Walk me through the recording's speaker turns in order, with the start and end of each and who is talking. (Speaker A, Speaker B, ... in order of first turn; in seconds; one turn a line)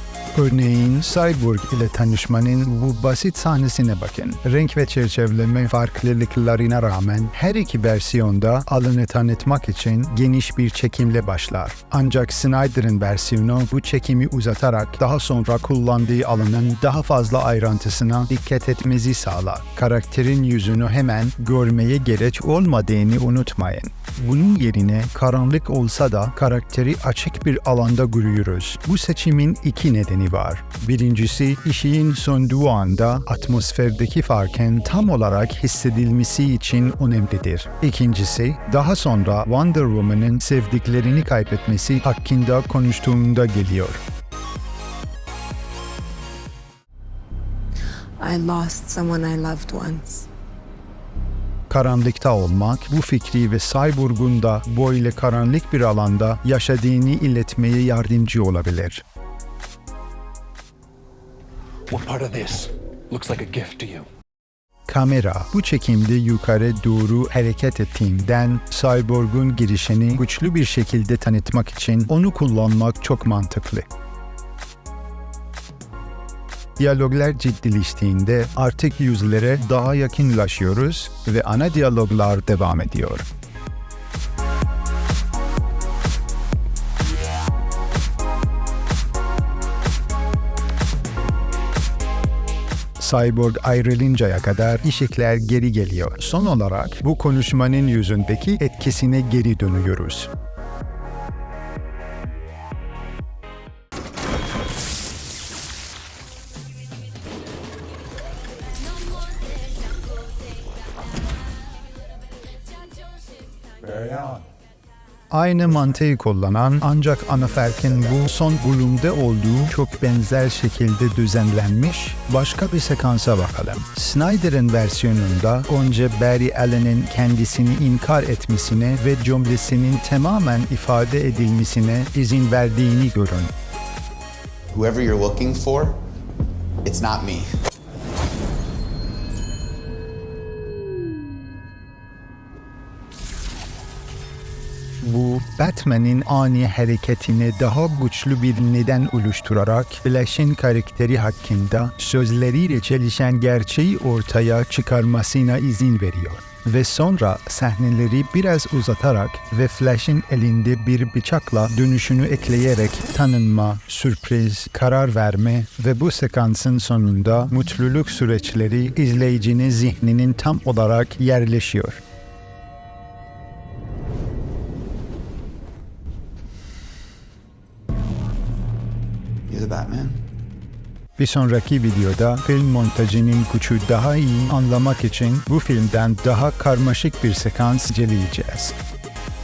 Speaker A: 0.3-44.0
Speaker B: 48.2-50.3
Speaker A: 51.7-59.0
Speaker C: 61.9-64.1
Speaker A: 64.9-73.9
Speaker A: 76.8-83.3
Speaker A: 93.0-100.3
Speaker D: 113.8-114.4
Speaker A: 115.3-133.5
Speaker D: 134.7-136.0
Speaker D: 136.8-137.5
Speaker A: 145.0-172.0
Speaker D: 179.5-180.2
Speaker A: 181.2-188.8